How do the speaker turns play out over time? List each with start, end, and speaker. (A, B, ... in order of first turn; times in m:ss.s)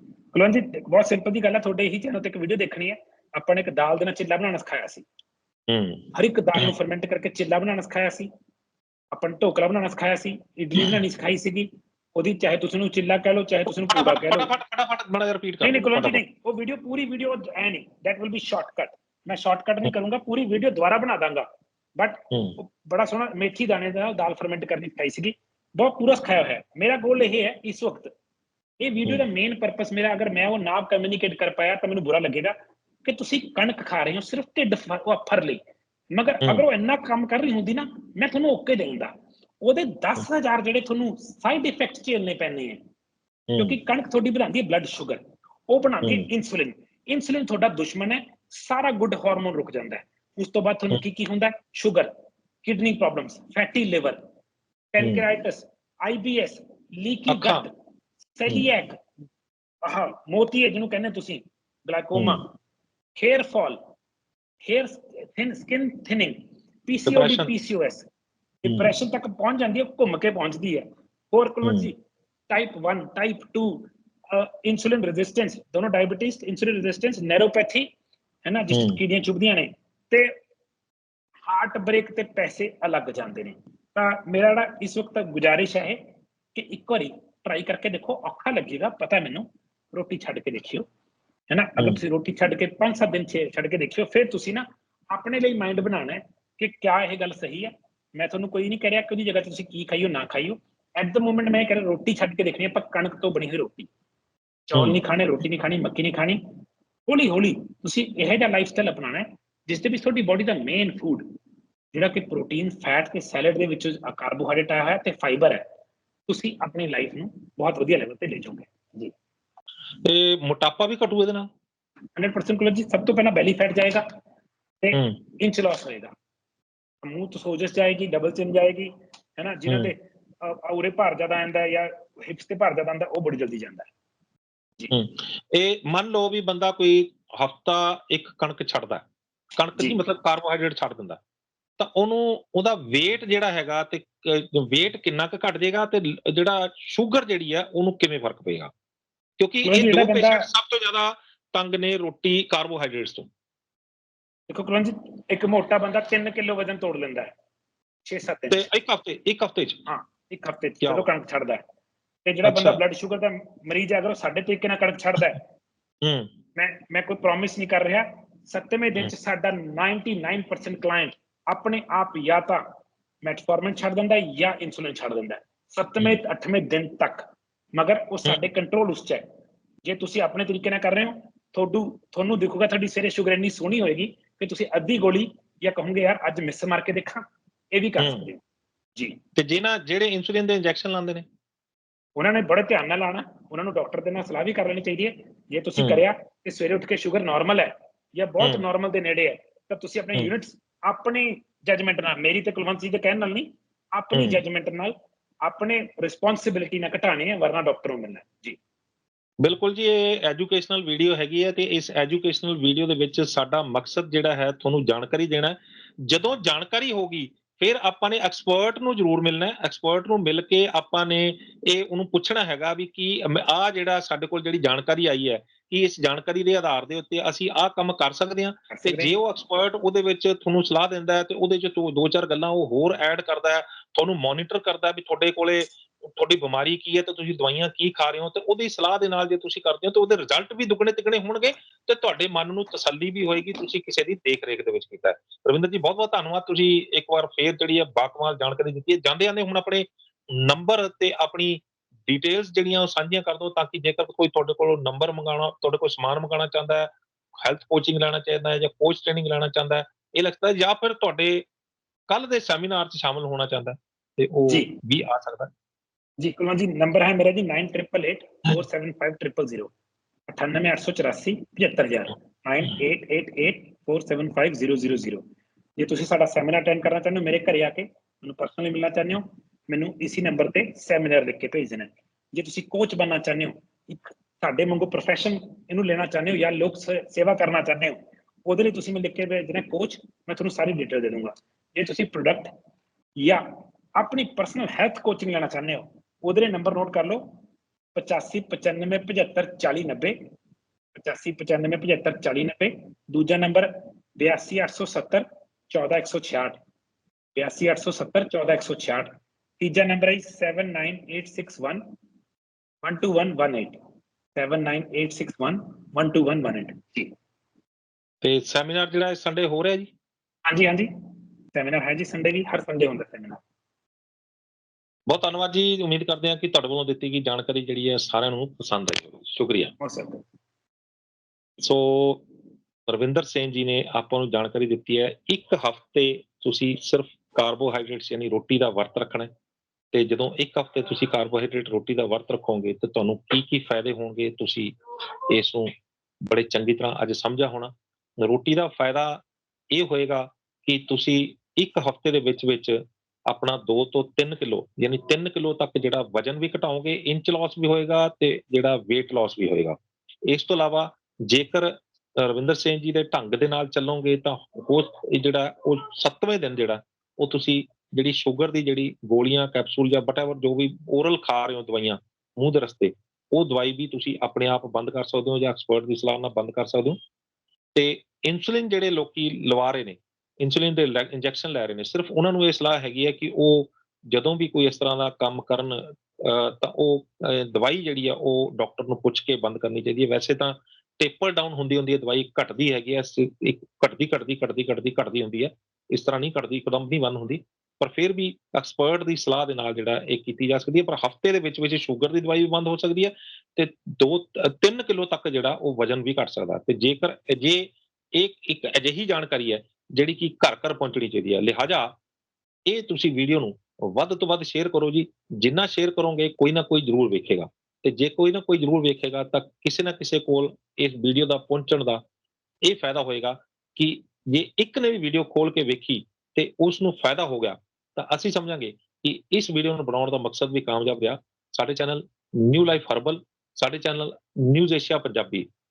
0:00.3-0:05.0 A
0:05.7-0:06.7 B
0:06.1-0:08.3 A
0:09.1-0:14.5 A
0:13.9-0:16.2 B
0:15.6-0:21.4 A
0:22.0-0:28.1 A
0:22.3-0:22.6 B
0:28.8-0:35.6 A
0:36.1-0:39.1 A
0:39.6-0:42.8 A
0:43.5-0:43.8 B
0:43.6-0:52.1 A
0:52.6-0:54.2 A
0:54.9-0:57.7 A
0:57.3-0:57.6 B
0:58.4-0:59.0 A
0:59.8-1:02.4 A
1:02.1-1:02.4 B
1:03.2-1:03.8 A
1:04.6-1:08.0 A
1:07.1-1:07.5 B
1:08.6-1:12.0 A
1:08.6-1:08.9 B
1:11.6-1:11.9 B
1:12.5-1:17.9 A
1:18.4-1:20.3 A
1:18.7-1:19.0 B
1:21.5-1:26.0 A
1:26.5-1:30.9 A
1:31.5-1:43.9 A
1:44.7-1:46.4 A
1:47.1-1:51.2 A
1:51.9-1:55.6 A
1:56.3-1:59.1 A
2:00.0-2:01.5 B
2:02.2-2:04.0 A
2:04.8-2:06.1 A
2:07.0-2:13.9 A
2:14.9-2:19.0 B
2:19.6-2:21.2 B
2:21.8-2:28.7 B
2:29.4-2:33.3 B
2:29.6-2:30.5 A
2:34.5-2:37.3 A
2:38.1-2:38.6 A
2:38.5-2:39.8 B
2:39.8-2:41.6 A
2:42.2-2:45.4 A
2:42.4-2:42.8 B
2:46.0-2:46.3 B
2:46.6-2:52.6 A
2:53.2-2:59.2 A
2:59.8-3:08.4 A
3:08.0-3:08.3 B
3:09.4-3:11.2 B
3:12.2-3:24.9 A
3:24.1-3:24.4 B
3:25.4-3:28.6 A
3:29.4-4:21.4 B
3:48.7-3:49.2 A
4:22.1-4:25.5 B
4:24.5-4:24.7 A
4:26.2-4:29.7 A
4:30.3-4:35.2 A
4:35.8-4:52.5 A
4:54.0-4:57.3 A
4:57.9-5:00.2 A
5:01.0-5:06.6 A
5:07.4-5:09.1 A
5:09.6-5:11.8 A
5:12.8-5:13.8 A
5:14.4-5:17.1 A
5:18.2-5:19.9 B
5:20.5-5:20.9 A
5:21.5-5:23.4 A
5:25.1-5:29.7 B
5:29.8-5:30.2 A
5:31.6-5:32.2 B
5:32.9-5:39.3 B
5:39.9-5:44.8 B
5:45.3-5:45.7 B
5:46.2-5:49.2 B
5:49.7-6:17.0 B
6:17.7-6:52.0 B
6:52.6-7:02.0 B
7:02.6-7:15.5 B